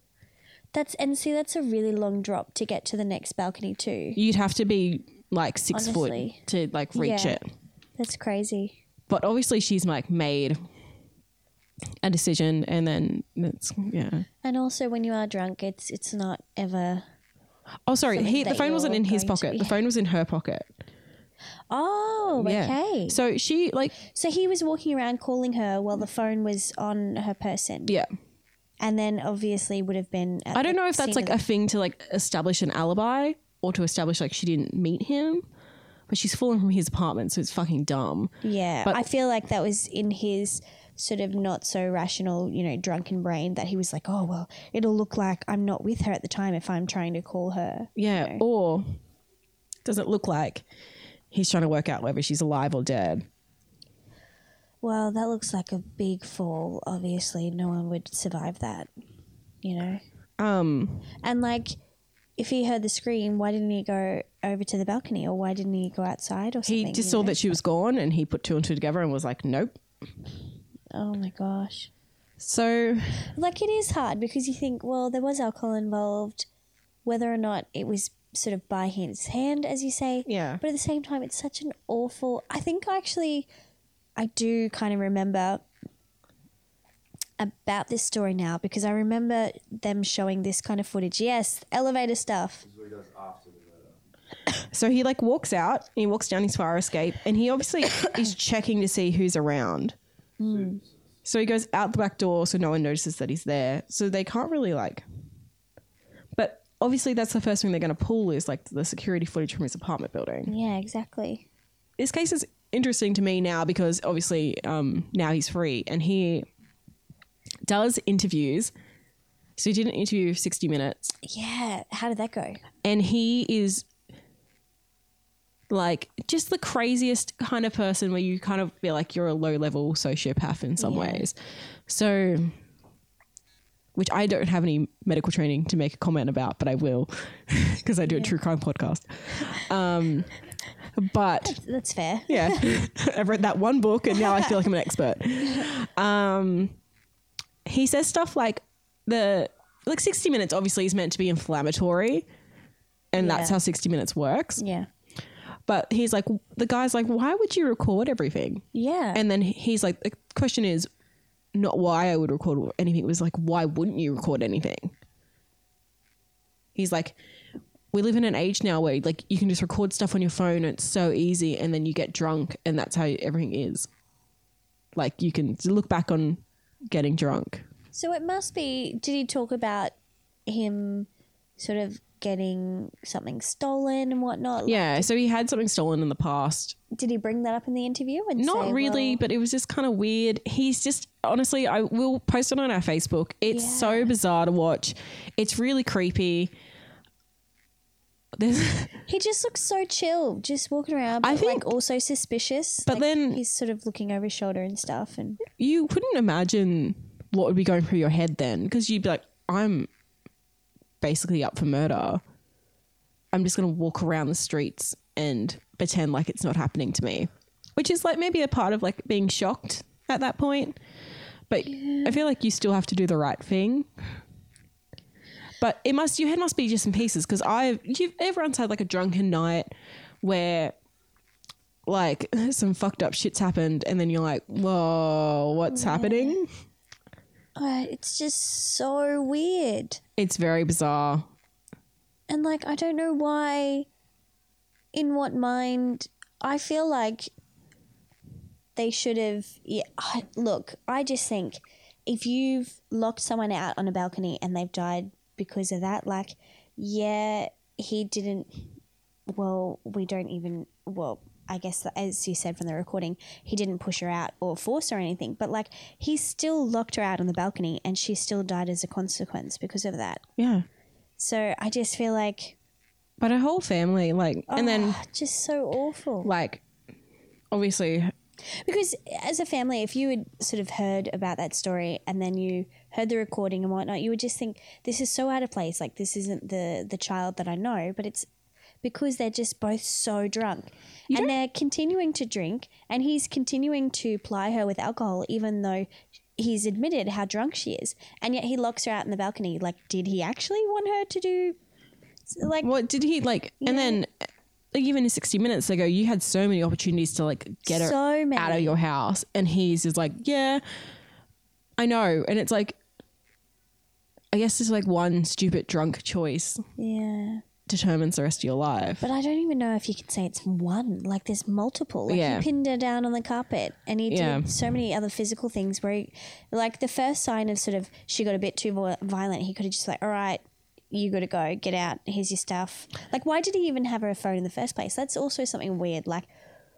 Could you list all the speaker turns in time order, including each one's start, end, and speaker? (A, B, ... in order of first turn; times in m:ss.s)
0:00.7-0:04.2 A
0:04.2-0:07.4 B
0:05.7-0:06.4 A
0:06.9-0:07.4 A
0:08.0-0:08.8 A
0:09.1-0:10.6 B
0:12.0-0:14.3 B
0:14.4-0:17.0 A
0:17.9-0:20.7 B
0:18.1-0:19.8 A
0:21.7-0:23.2 A
0:22.4-0:23.9 B
0:24.0-0:27.9 A
0:28.8-0:31.4 A
0:30.5-0:35.4 B
0:36.1-0:39.0 B
0:38.4-0:48.4 A
0:48.0-0:49.0 B
0:49.8-0:50.6 B
0:51.3-0:53.3 B
0:54.8-0:58.9 A
0:59.6-1:00.0 A
1:00.4-1:01.1 B
1:01.2-1:01.8 A
1:02.4-1:07.4 A
1:06.6-1:09.8 B
1:10.9-1:11.9 A
1:12.4-1:13.3 B
1:13.3-1:16.5 A
1:17.0-1:23.5 A
1:20.3-1:20.6 B
1:24.2-1:25.6 A
1:27.4-1:32.6 A
1:32.6-1:34.0 C
1:34.7-1:40.0 B
1:40.4-1:40.8 A
1:40.4-1:41.1 C
1:41.2-1:45.0 B
1:46.4-1:50.5 B
1:50.5-1:51.5 A
1:52.0-1:56.4 B
1:57.6-1:58.7 B
1:59.6-2:01.1 B
2:01.2-2:02.6 A
2:02.8-2:03.9 B
2:05.7-2:11.4 B
2:10.8-2:11.3 A
2:11.9-2:12.6 B
2:13.9-2:20.3 B
2:18.0-2:18.3 A
2:20.9-2:21.6 B
2:21.4-2:22.7 A
2:22.3-2:26.8 B
2:27.6-2:32.3 B
2:33.1-2:34.6 B
2:33.2-2:33.6 A
2:34.6-2:34.9 A
2:35.7-2:40.9 B
2:38.7-2:39.2 A
2:41.5-2:44.9 B
2:46.7-2:47.2 B
2:47.9-2:53.9 B
2:54.9-2:57.6 B
2:57.9-2:59.9 A
3:00.4-3:05.1 A
3:04.6-3:06.8 B
3:06.9-3:09.2 A
3:08.4-3:16.5 B
3:13.5-3:14.1 A
3:18.3-3:18.9 B
3:19.0-3:25.4 A
3:21.2-3:21.7 B
3:22.9-3:23.4 B
3:25.5-3:29.9 B
3:31.0-3:32.2 B
3:33.3-3:40.8 B
3:41.5-3:43.9 B
3:41.6-3:42.2 A
3:45.6-3:49.7 B
3:50.2-3:50.8 B
3:51.9-3:56.5 B
3:55.7-3:56.4 A
3:57.6-4:00.0 A
4:00.2-4:01.3 B
4:02.3-4:03.9 A
4:04.9-4:07.3 A
4:08.8-4:18.6 A
4:19.3-4:30.2 A
4:30.4-4:30.6 B
4:31.2-4:32.6 A
4:33.2-4:35.0 B
4:34.5-4:36.3 A
4:36.2-4:36.6 B
4:37.5-4:38.1 B
4:38.5-4:48.3 A
4:48.8-5:01.6 A
5:02.3-5:02.7 A
5:02.6-5:04.1 B
5:03.6-5:04.0 A
5:04.7-5:10.6 B
5:07.7-5:08.8 A
5:11.8-5:12.8 B
5:14.3-5:16.6 B
5:16.8-5:17.4 A
5:17.7-5:19.0 B
5:19.0-5:36.3 A
5:22.1-5:22.4 B
5:24.1-5:24.5 B